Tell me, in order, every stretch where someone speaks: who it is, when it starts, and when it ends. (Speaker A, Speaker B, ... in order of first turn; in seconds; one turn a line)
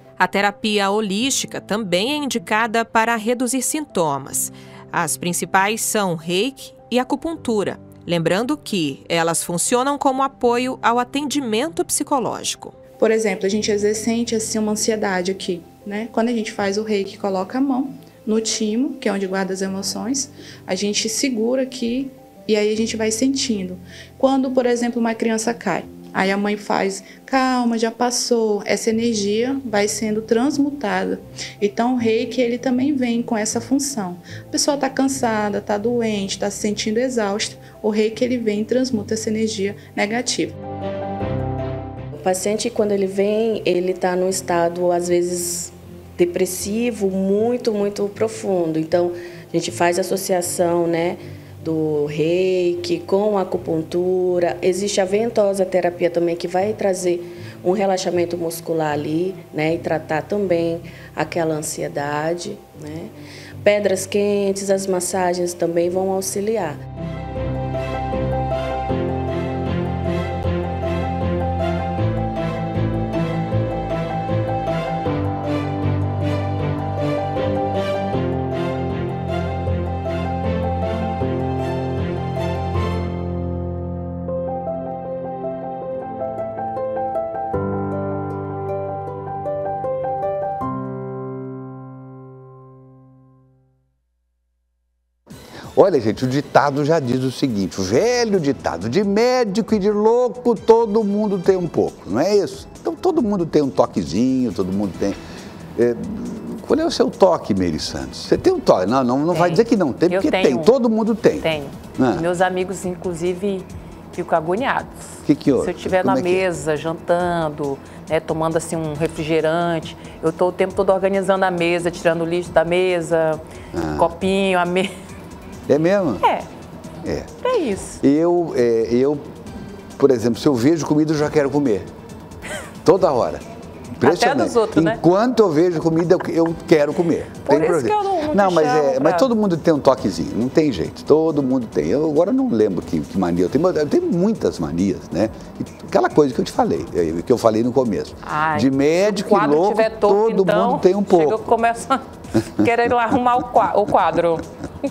Speaker A: 0.2-12.7
Speaker B: 13.0-40.6
Speaker C: 42.2-63.1
Speaker C: 63.6-66.8
Speaker D: 95.8-105.2
Speaker D: 105.8-112.3
Speaker E: 109.3-110.7
Speaker E: 111.4-123.4
Speaker D: 115.2-116.5
Speaker D: 123.7-124.1
Speaker E: 124.0-124.9
Speaker D: 125.7-126.2
Speaker D: 127.0-127.3
Speaker E: 127.4-128.0
Speaker D: 128.0-129.2
Speaker D: 130.0-131.9
Speaker D: 132.8-133.4
Speaker D: 134.0-151.5
Speaker E: 134.0-135.0
Speaker E: 137.4-139.3
Speaker E: 148.2-154.4
Speaker D: 152.6-153.7